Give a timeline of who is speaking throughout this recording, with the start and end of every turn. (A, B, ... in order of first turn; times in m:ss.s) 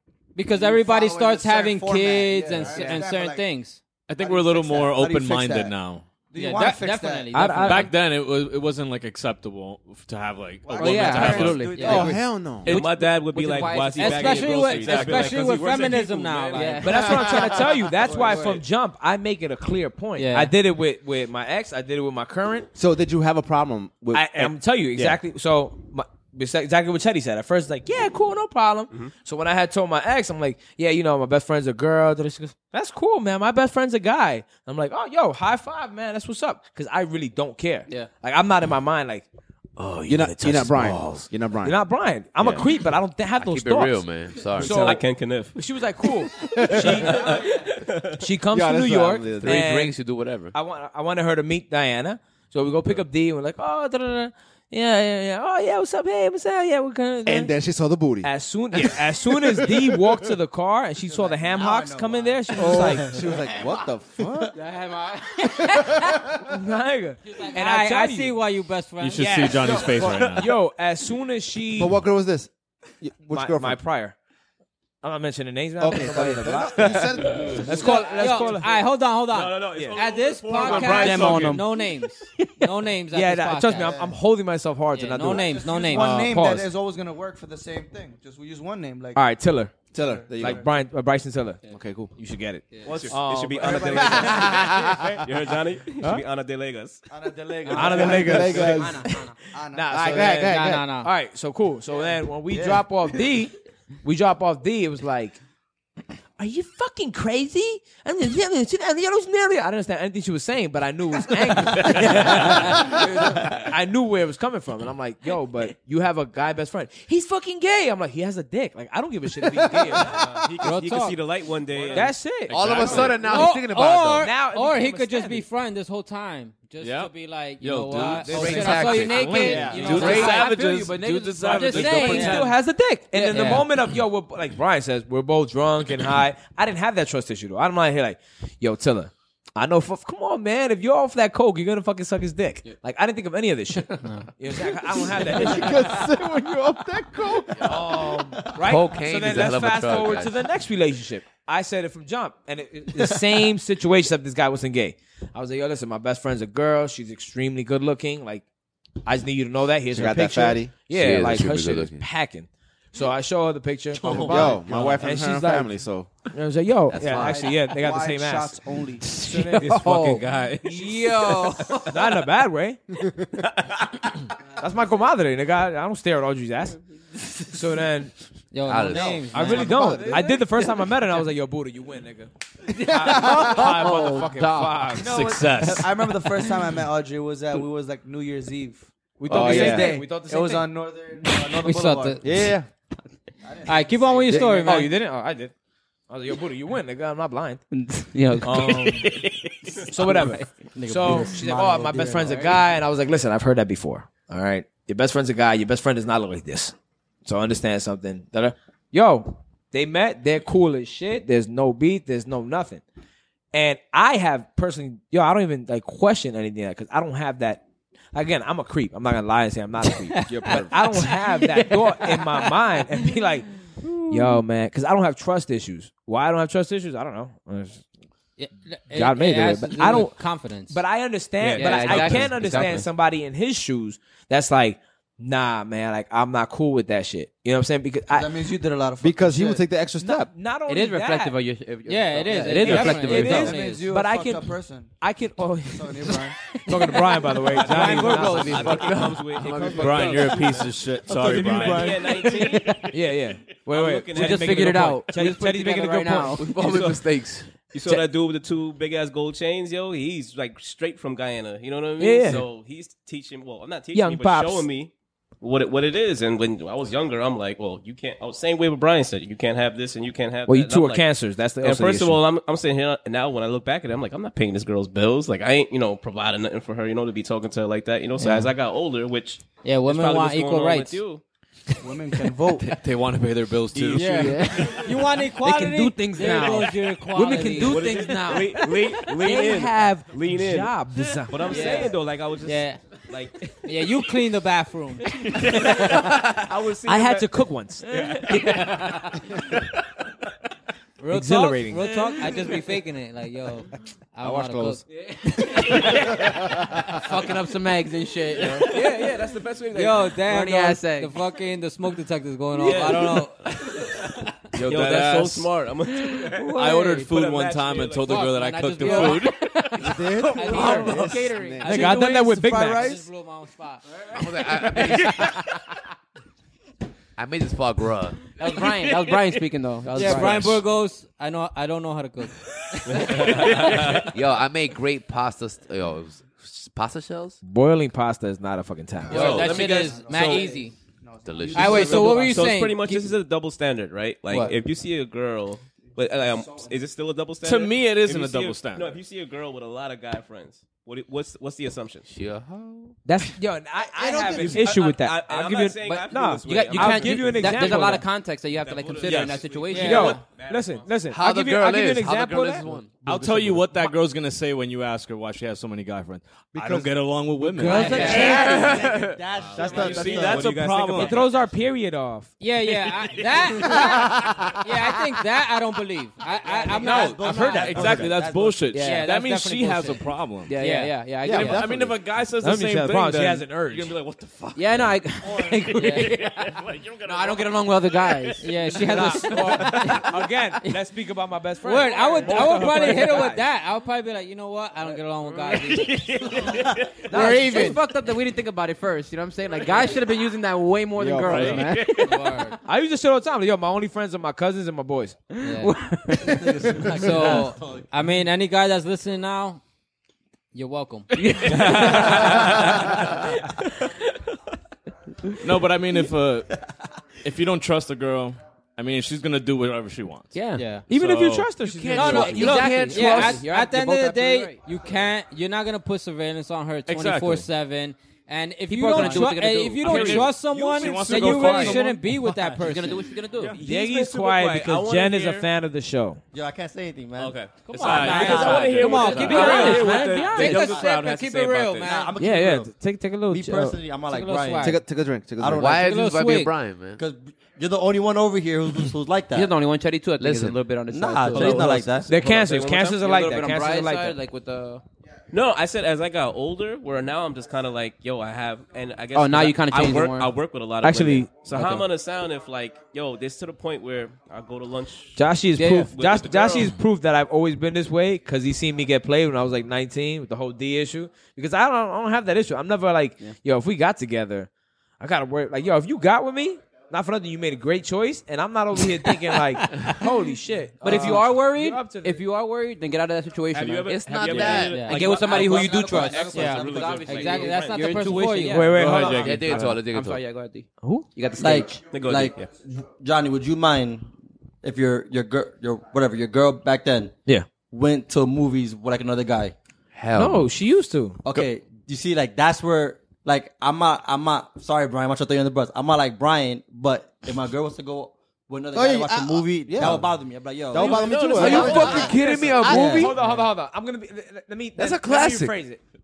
0:00.3-0:03.8 A
0:00.4-0:03.4 B
0:04.1-0:06.0 C
0:04.2-0:05.8 B
0:06.3-0:07.4 B
0:06.4-0:07.9 A
0:07.3-0:07.9 D
0:07.5-0:11.8 C
0:10.6-0:12.2 B
0:10.7-0:15.1 E
0:11.8-0:12.1 A
0:11.8-0:12.7 F
0:12.6-0:17.2 G
0:14.0-0:17.2 A
0:14.4-0:15.5 C
0:16.5-0:17.3 E
0:16.8-0:22.7 D
0:18.1-0:18.5 H
0:18.1-0:18.5 B
0:20.2-0:20.5 A
0:22.7-0:25.2 F
0:24.1-0:39.2 D
0:39.8-0:47.5 D
0:40.0-0:41.8 F
0:43.4-0:45.0 I
0:44.6-0:45.5 G
0:46.5-0:47.1 F
0:46.7-0:48.2 G
0:48.2-0:50.0 D
0:48.5-0:49.6 F
0:49.4-0:50.5 I
0:50.5-0:57.5 D
0:57.2-0:58.3 F
0:58.2-1:03.2 D
1:01.1-1:03.3 H
1:02.6-1:04.5 F
1:04.5-1:05.8 E
1:06.5-1:08.4 D
1:07.3-1:09.8 A
1:09.0-1:10.5 C
1:09.2-1:12.0 D
1:11.8-1:13.8 F
1:13.3-1:14.2 D
1:15.0-1:18.8 D
1:15.8-1:18.2 F
1:17.7-1:24.0 A
1:19.3-1:21.6 G
1:19.7-1:20.0 D
1:20.6-1:21.6 F
1:23.1-1:26.7 D
1:23.7-1:24.1 B
1:24.9-1:26.1 A
1:25.3-1:29.2 B
1:26.0-1:26.3 F
1:29.1-1:29.7 D
1:29.9-1:30.7 F
1:30.0-1:30.6 B
1:30.3-1:31.6 D
1:31.7-1:32.1 F
1:32.1-1:34.5 D
1:32.7-1:33.0 E
1:32.8-1:35.2 B
1:32.8-1:37.0 G
1:37.1-1:40.3 B
1:37.7-1:39.4 E
1:37.7-1:39.1 D
1:37.8-1:39.2 F
1:39.7-1:43.5 D
1:39.9-1:40.9 F
1:40.5-1:41.1 A
1:44.0-1:45.4 D
1:46.4-2:00.3 D
2:00.0-2:03.4 G
2:00.6-2:01.2 A
2:01.9-2:05.5 D
2:02.5-2:04.3 I
2:03.2-2:10.3 A
2:06.8-2:12.5 C
2:08.0-2:10.9 D
2:08.1-2:10.4 I
2:08.4-2:12.5 E
2:11.5-2:26.0 D
2:11.8-2:12.5 A
2:13.1-2:13.7 E
2:13.3-2:13.6 A
2:25.0-2:27.8 F
2:27.6-2:38.4 D
2:27.6-2:28.5 H
2:28.6-2:30.4 I
2:33.0-2:33.3 H
2:39.0-2:50.3 D
2:39.9-2:40.8 F
2:40.9-2:42.0 I
2:44.0-2:44.6 H
2:44.1-2:46.1 F
2:46.9-2:47.5 I
2:47.1-2:49.2 B
2:49.0-2:52.0 E
2:51.9-2:52.8 D
2:54.6-2:56.8 D
2:57.5-2:58.1 D
2:58.5-3:00.0 A
2:58.6-2:59.7 I
2:59.3-3:05.3 D
2:59.4-3:00.3 F
3:00.0-3:00.8 E
3:02.7-3:05.0 E
3:05.0-3:06.2 C
3:05.0-3:12.3 B
3:09.2-3:10.7 D
3:09.3-3:10.0 F
3:11.6-3:12.2 A
3:12.2-3:12.7 F
3:13.4-3:14.8 B
3:13.6-3:14.9 A
3:14.3-3:14.6 F
3:14.3-3:15.5 D
3:16.1-3:17.6 D
3:17.7-3:20.5 E
3:18.4-3:19.2 D
3:19.9-3:32.8 D
3:20.7-3:22.6 H
3:33.5-3:43.5 D
3:40.3-3:41.2 F
3:44.1-3:47.8 D
3:48.4-3:50.8 A
3:48.9-3:58.3 D
3:51.4-3:52.8 G
3:51.5-3:52.9 E
3:58.1-3:59.6 B
3:58.9-3:59.5 H
3:59.0-4:00.3 F
4:00.0-4:01.4 D
4:00.7-4:03.5 E
4:01.8-4:03.8 A
4:02.5-4:08.7 D
4:02.7-4:05.0 B
4:05.7-4:06.4 B
4:07.6-4:12.7 G
4:07.6-4:08.9 A
4:07.9-4:10.4 I
4:08.1-4:08.6 E
4:09.6-4:10.1 B
4:09.7-4:11.9 C
4:11.0-4:12.7 B
4:12.2-4:12.8 E
4:12.9-4:16.4 D
4:13.7-4:14.9 G
4:14.1-4:16.8 E
4:16.4-4:17.5 I
4:16.6-4:17.0 G
4:17.7-4:31.1 G
4:22.0-4:22.5 D
4:23.9-4:24.7 D
4:30.5-4:32.2 D
4:31.6-4:41.2 G
4:38.2-4:38.5 A
4:39.6-4:41.0 A
4:41.8-4:42.7 B
4:42.6-4:44.8 C
4:43.8-4:44.0 G
4:43.9-4:48.7 E
4:43.9-4:47.8 A
4:47.1-4:51.7 D
4:47.6-4:53.8 G
4:51.5-4:52.8 A
4:53.6-4:55.2 A
4:55.3-4:58.7 G
4:55.8-4:56.4 I
4:56.8-4:57.9 D
4:57.9-4:59.2 E
5:01.0-5:04.8 A
5:01.1-5:01.9 D
5:04.2-5:04.8 F
5:04.9-5:06.3 E
5:05.4-5:06.0 A
5:06.9-5:09.1 E
5:08.4-5:10.2 G
5:09.7-5:13.4 A
5:10.2-5:11.1 E
5:12.6-5:13.8 G
5:12.6-5:13.2 E
5:14.5-5:15.5 C
5:14.6-5:18.3 G
5:16.1-5:17.1 E
5:16.5-5:19.5 C
5:18.1-5:19.4 A
5:18.8-5:22.0 E
5:19.8-5:22.0 F
5:20.3-5:21.2 A
5:21.6-5:23.0 D
5:21.7-5:23.8 A
5:21.7-5:23.0 B
5:24.1-5:25.4 I
5:25.1-5:25.4 E
5:27.2-5:28.3 I
5:28.3-5:30.6 E
5:29.9-5:33.5 A
5:32.9-5:34.1 G
5:33.6-5:33.9 C
5:33.7-5:37.4 I
5:37.4-5:39.4 D
5:39.1-5:42.4 B
5:39.1-5:40.6 G
5:39.1-5:40.7 A
5:41.2-5:42.1 I
5:41.5-5:43.1 A
5:41.5-5:52.1 G
5:41.7-5:42.3 E
5:47.4-5:49.0 C
5:52.1-5:53.0 I
5:53.0-5:58.0 D
5:54.0-5:54.6 F
5:54.2-5:57.9 G
5:55.8-6:00.2 E
5:58.5-6:00.9 G
5:59.0-5:59.4 C
5:59.7-6:00.2 A
5:59.8-6:02.6 D
6:01.1-6:03.6 I
6:03.0-6:08.8 C
6:06.6-6:07.1 F
6:07.5-6:10.6 H
6:07.6-6:08.5 A
6:07.7-6:08.5 E
6:08.0-6:09.2 I
6:08.2-6:11.4 G
6:09.6-6:10.6 F
6:09.8-6:11.2 C
6:10.9-6:12.3 D
6:12.4-6:17.9 A
6:13.8-6:14.5 F
6:16.5-6:18.7 H
6:16.7-6:20.6 C
6:17.2-6:18.2 D
6:18.7-6:19.1 E
6:18.8-6:21.0 A
6:20.4-6:21.9 E
6:21.2-6:22.0 F
6:21.3-6:28.3 C
6:22.4-6:24.0 D
6:22.5-6:22.8 G
6:24.5-6:30.1 E
6:25.8-6:26.1 A
6:28.4-6:30.0 A
6:28.7-6:33.4 D
6:31.6-6:35.9 A
6:32.2-6:32.5 E
6:35.6-6:37.2 G
6:37.1-6:42.5 E
6:37.1-6:37.8 A
6:37.1-6:37.4 D
6:41.0-6:41.8 F
6:41.2-6:41.9 C
6:41.6-6:42.2 G
6:41.8-6:42.6 A
6:42.6-6:45.2 D
6:45.3-6:46.5 E
6:45.4-6:49.6 A
6:46.2-6:47.8 H
6:50.5-6:52.0 A
6:51.1-6:52.7 E
6:51.5-6:52.3 C
6:51.6-6:52.7 G
6:55.4-6:56.5 C
6:57.2-7:01.5 C
7:00.3-7:00.8 E
7:00.6-7:00.8 A
7:00.9-7:02.6 D
7:01.6-7:03.4 I
7:01.9-7:13.0 A
7:02.0-7:04.6 E
7:06.9-7:07.5 C
7:08.7-7:10.4 E
7:09.0-7:11.8 C
7:11.0-7:12.0 E
7:12.6-7:13.6 E
7:13.6-7:15.5 G
7:13.6-7:16.2 D
7:16.3-7:18.7 H
7:17.2-7:22.0 G
7:17.7-7:22.1 A
7:17.8-7:19.5 C
7:17.8-7:20.8 E
7:19.2-7:19.7 D
7:20.2-7:20.9 H
7:21.8-7:22.7 H
7:22.2-7:23.8 D
7:23.3-7:24.8 H
7:24.1-7:24.8 A
7:24.6-7:25.7 F
7:25.4-7:26.0 H
7:25.5-7:27.0 I
7:25.7-7:26.5 A
7:27.0-7:29.5 H
7:29.3-7:31.9 E
7:30.2-7:30.6 I
7:30.9-7:32.1 H
7:31.4-7:34.2 D
7:32.1-7:33.1 G
7:33.0-7:34.8 E
7:35.3-7:45.2 G
7:39.1-7:40.3 E
7:40.8-7:41.8 D
7:45.2-7:54.5 D
7:45.6-7:45.9 E
7:45.9-7:46.8 G
7:55.0-8:02.2 D
8:00.8-8:11.8 E
8:03.5-8:08.2 G
8:03.8-8:04.9 I
8:04.7-8:05.0 A
8:05.3-8:06.9 H
8:06.3-8:08.7 A
8:08.5-8:09.5 D
8:08.7-8:09.8 C
8:09.0-8:10.2 I
8:10.8-8:11.1 D
8:11.3-8:14.1 H
8:11.9-8:12.5 G
8:14.6-8:19.5 H
8:19.9-8:20.5 I
8:20.1-8:21.2 D
8:21.2-8:33.2 H
8:28.7-8:30.1 F
8:30.7-8:32.2 F
8:30.7-8:32.6 G
8:31.3-8:33.2 I
8:31.5-8:35.8 D
8:34.8-8:35.6 I